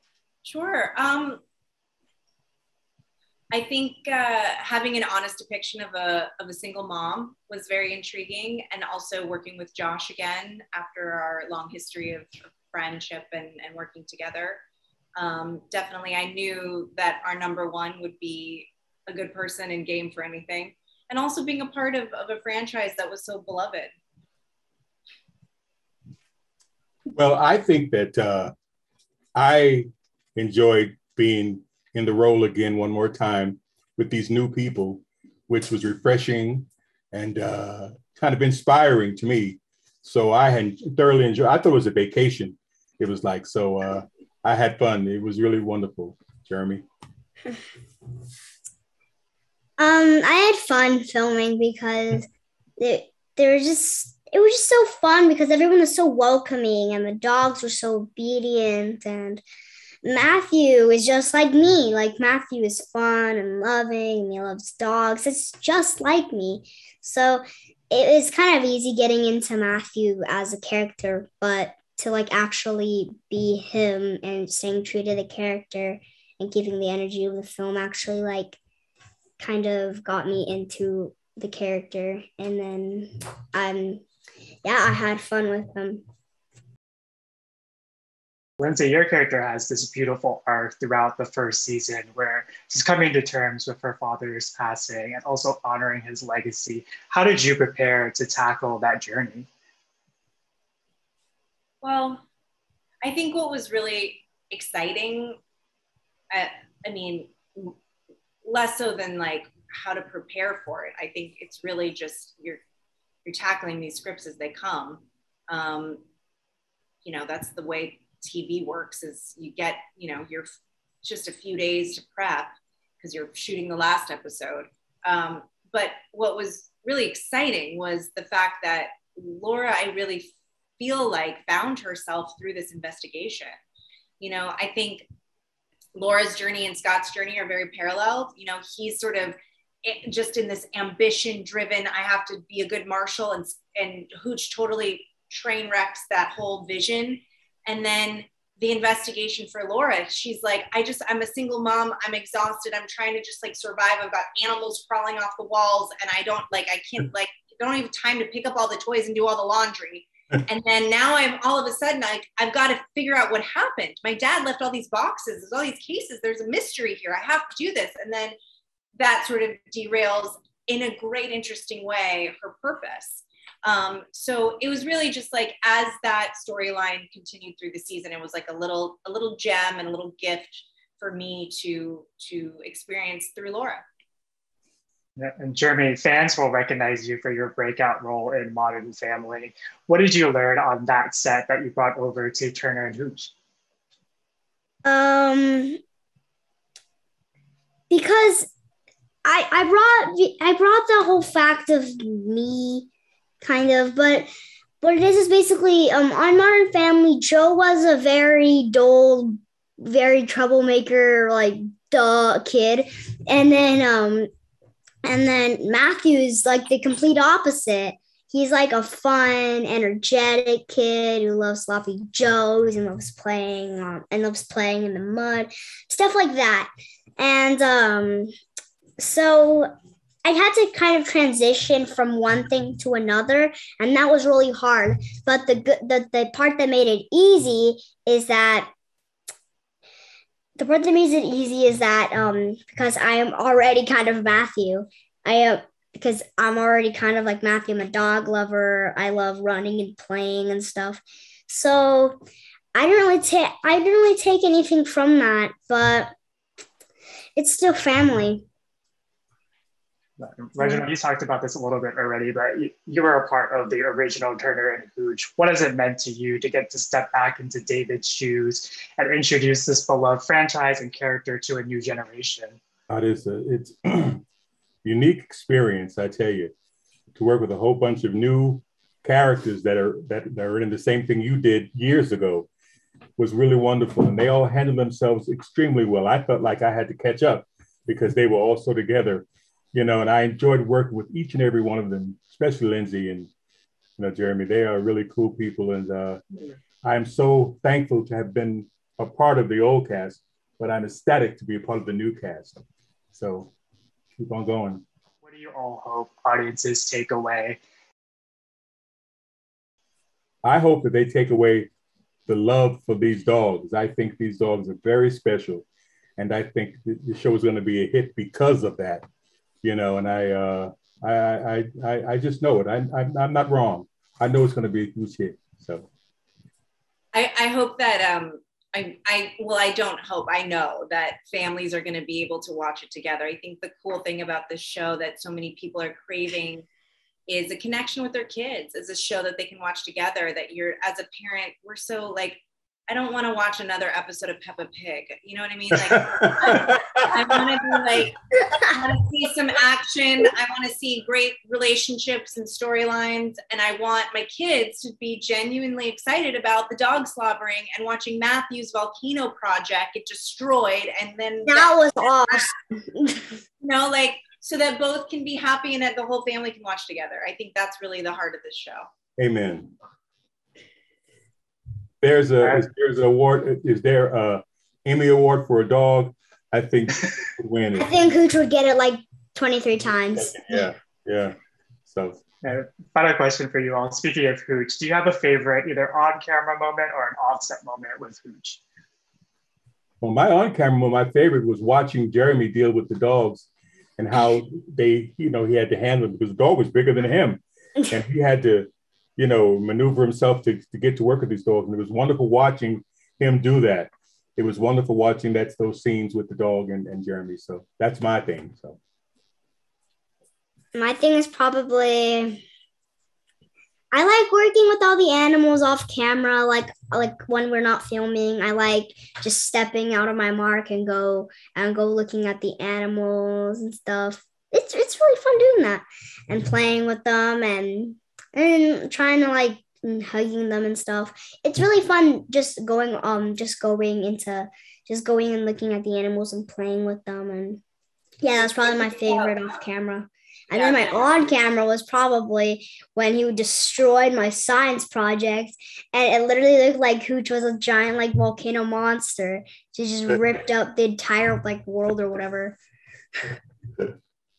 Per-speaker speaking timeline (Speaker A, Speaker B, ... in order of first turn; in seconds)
Speaker A: 0.5-1.4, 3.5-14.6, 15.2-23.9, 101.8-102.2, 103.0-105.4, 106.3-107.8, 108.5-112.6, 113.2-116.0, 117.0-133.5, 134.2-135.1, 135.9-168.4, 169.0-183.8, 327.1-336.7, 337.3-361.8, 363.6-368.9, 438.4-439.4, 440.5-441.1
Speaker B: 27.1-28.5, 29.4-46.9, 272.9-274.2, 274.8-276.5, 277.1-282.5, 283.2-293.3, 294.0-296.2, 296.8-302.6, 303.1-303.5, 304.2-304.8, 310.4-311.7, 312.3-315.7, 316.2-319.1, 319.6-325.9, 346.1-347.0, 369.2-369.7, 372.0-378.1, 380.2-382.2, 390.0-408.8
Speaker C: 49.8-59.4, 60.0-78.6, 79.4-84.0, 84.6-86.0, 194.8-195.8, 197.9-198.5, 199.2-202.9, 203.4-204.3, 204.8-214.3, 215.0-228.3, 229.0-229.7, 230.2-238.7, 240.6-252.2, 252.8-256.1, 257.4-258.5, 260.6-260.9, 361.5-363.4, 377.8-380.7, 410.7-412.4, 413.9-437.6, 438.2-452.6
Speaker D: 88.6-99.5, 185.2-193.3, 260.2-272.6, 305.2-307.6, 382.4-388.6